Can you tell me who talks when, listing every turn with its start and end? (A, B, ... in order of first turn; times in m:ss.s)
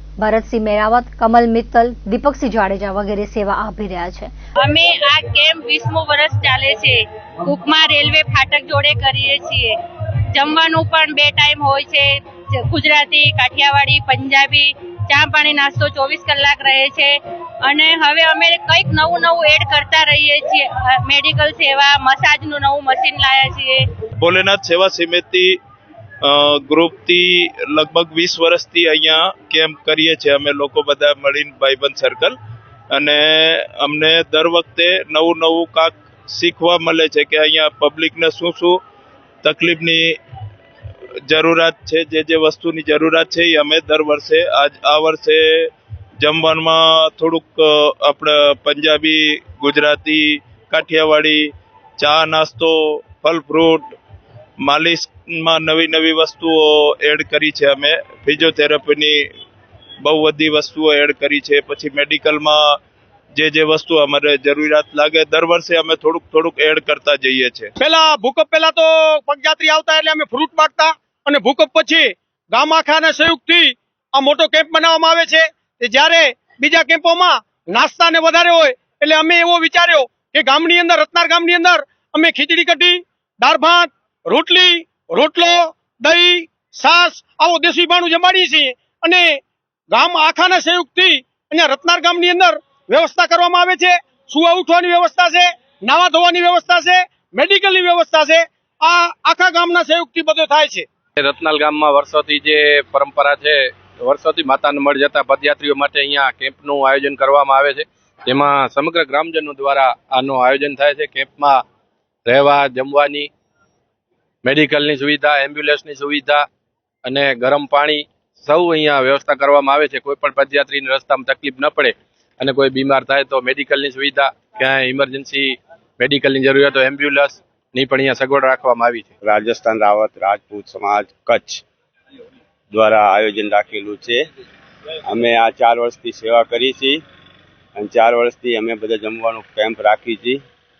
0:00.2-0:04.3 A
0:04.6-0:09.8 B
0:10.3-0:23.8 B
0:24.2-0:25.6 C
0:26.2-0:32.4 C
0:32.9-0:38.8 C
0:39.4-0:40.2 C
0:41.3-0:53.9 C
0:54.6-0:59.3 C
1:00.0-1:02.8 C
1:03.4-1:07.7 C
1:07.8-1:29.4 D
1:29.9-1:40.9 D
1:41.3-1:51.6 E
1:52.3-1:53.3 E
1:54.5-1:56.4 E
1:57.1-2:09.1 E
2:09.2-2:11.6 F
2:12.7-2:14.3 F
2:15.1-2:17.0 F
2:17.8-2:20.4 F